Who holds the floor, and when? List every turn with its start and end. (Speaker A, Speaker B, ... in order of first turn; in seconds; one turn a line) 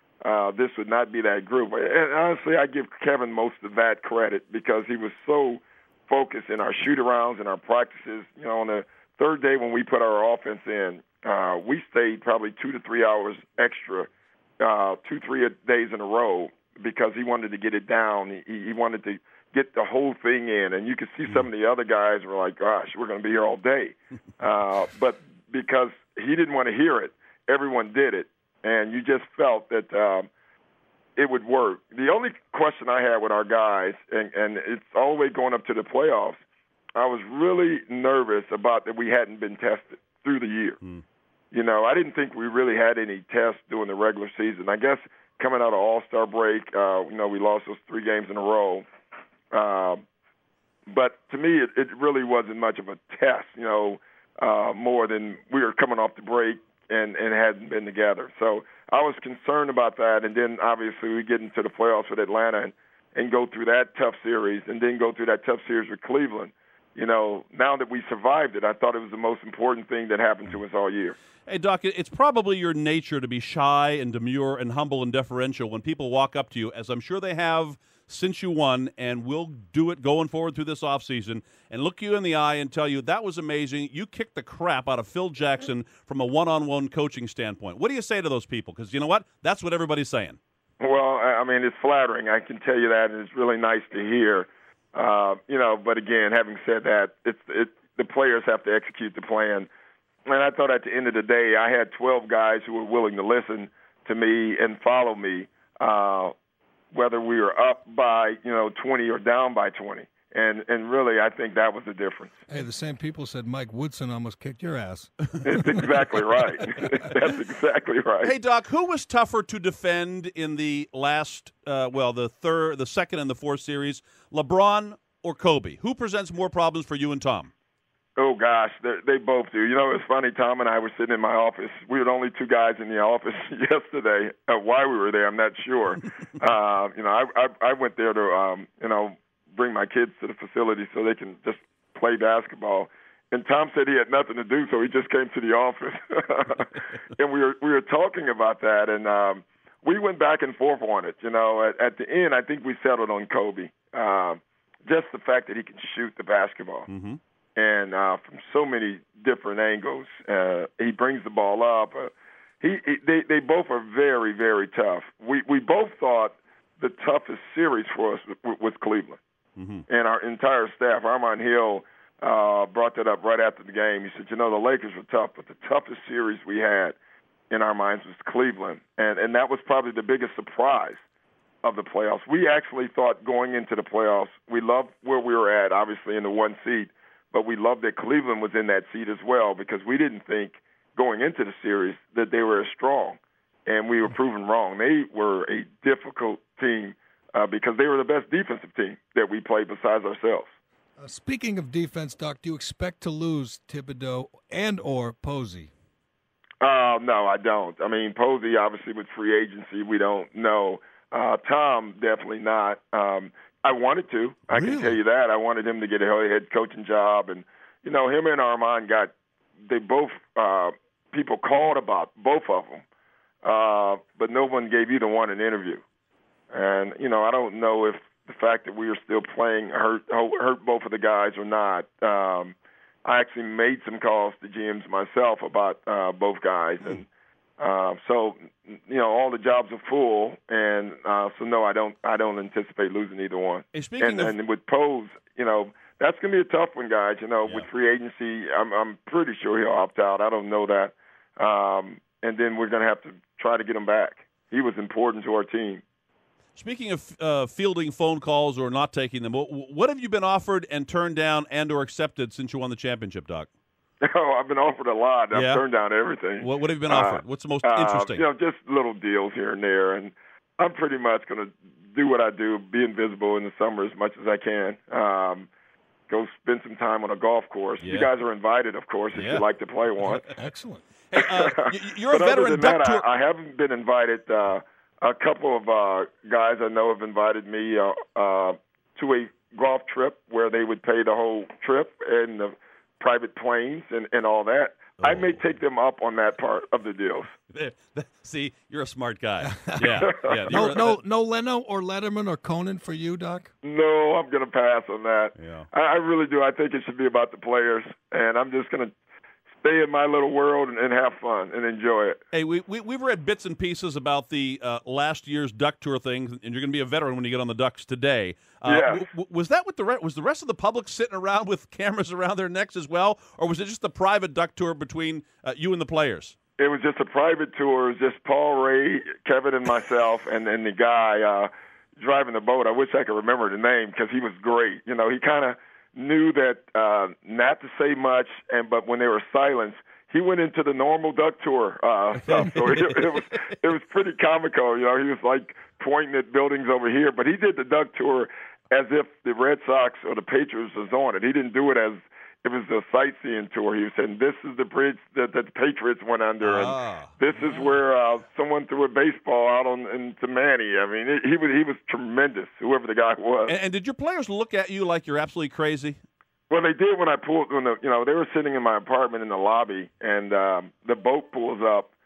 Speaker A: 0.2-30.3
Speaker A: 31.2-36.4
Speaker A: 37.0-40.8
Speaker A: 41.5-48.9
Speaker A: 49.5-50.0
Speaker A: 50.9-71.2
Speaker B: 71.5-90.4
Speaker A: 90.8-99.7
Speaker A: 100.3-106.3
Speaker A: 106.9-112.4
Speaker C: 112.5-115.8
Speaker A: 115.4-118.3
Speaker C: 116.8-117.0
Speaker B: 118.2-127.5
Speaker A: 128.2-156.9
Speaker B: 156.9-157.2
Speaker A: 157.6-169.2
Speaker B: 169.6-169.9
Speaker A: 169.9-177.0
Speaker A: 177.5-181.0
Speaker A: 181.6-200.5
Speaker C: 201.0-205.7
Speaker A: 206.6-219.1
Speaker C: 214.5-215.0
Speaker A: 219.7-222.8
Speaker A: 223.4-225.8
Speaker A: 226.5-237.1
Speaker A: 237.6-255.8
Speaker B: 243.7-244.3
Speaker B: 256.6-263.5
Speaker A: 264.0-275.5
Speaker B: 265.3-265.6
Speaker B: 266.4-268.2
Speaker A: 276.1-280.3
Speaker B: 277.8-278.1
Speaker B: 279.1-279.4
Speaker B: 280.0-280.3
Speaker C: 280.3-280.9
Speaker B: 281.1-283.0
Speaker A: 281.2-297.3
Speaker B: 295.0-295.4
Speaker B: 297.5-301.0
Speaker C: 299.4-303.5
Speaker A: 300.0-300.7
Speaker A: 303.6-308.9
Speaker B: 305.4-305.7
Speaker A: 309.6-312.2
Speaker B: 312.3-326.4
Speaker A: 318.7-319.1
Speaker A: 326.6-363.5
Speaker B: 342.4-343.0
Speaker B: 356.4-357.1
Speaker B: 363.5-366.0
Speaker A: 366.5-371.9